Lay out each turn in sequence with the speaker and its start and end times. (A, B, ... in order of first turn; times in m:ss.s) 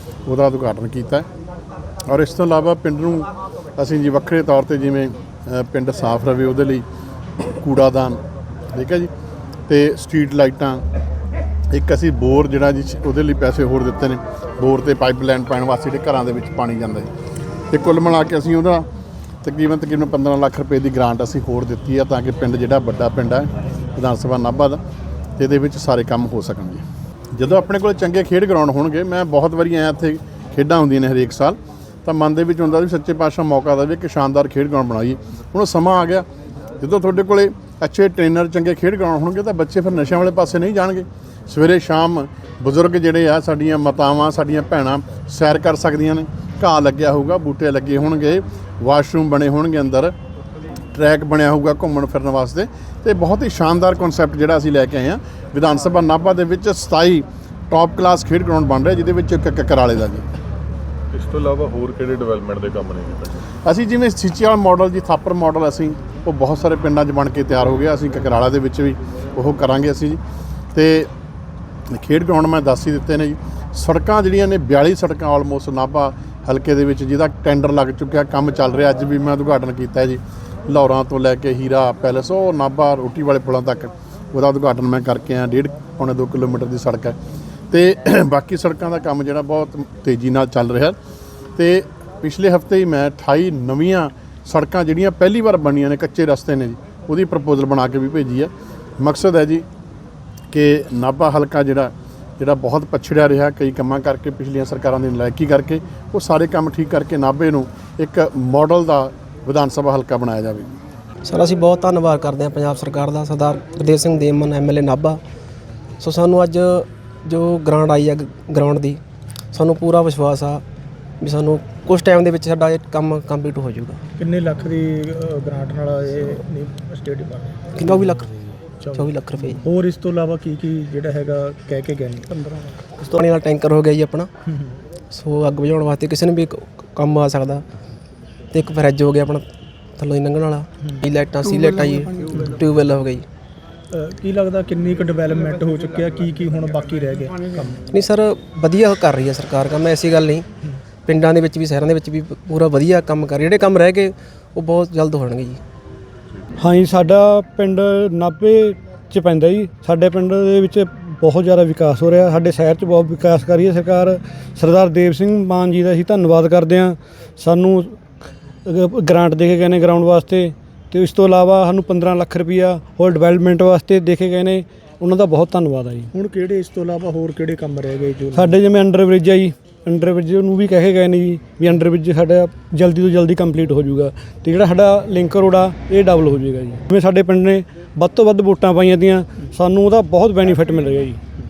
0:00.3-0:01.3 A
0:02.1-0:06.8 A
0:07.4-0:08.2 A
0:08.7-0:09.1 A
0:09.7-0:10.8 A
0:11.7-0:17.1 A
0:17.7-0:18.9 A
0:19.4-0:24.8 A
0:25.4-0:36.3 A
0:36.8-0:50.1 A
0:50.9-1:00.2 A
1:01.1-1:03.5 B
1:03.6-1:10.2 A
1:10.7-1:11.1 A
1:11.9-1:27.2 A
1:27.7-1:31.0 A
1:31.6-1:39.6 A
1:40.5-1:50.7 A
1:51.3-1:55.2 C
1:56.0-1:59.0 C
1:59.5-2:00.6 C
2:01.2-2:04.0 C
2:04.2-2:07.5 D
2:07.7-2:09.6 C
2:08.8-2:09.1 D
2:09.6-2:12.7 D
2:13.0-2:14.3 C
2:15.1-2:17.6 C
2:18.5-2:19.4 C
2:20.0-2:23.3 C
2:23.9-2:27.8 D
2:27.9-2:30.5 C
2:31.1-2:35.6 C
2:36.6-2:48.0 E
2:48.7-2:56.1 E
2:56.1-2:58.6 D
2:58.4-3:11.2 E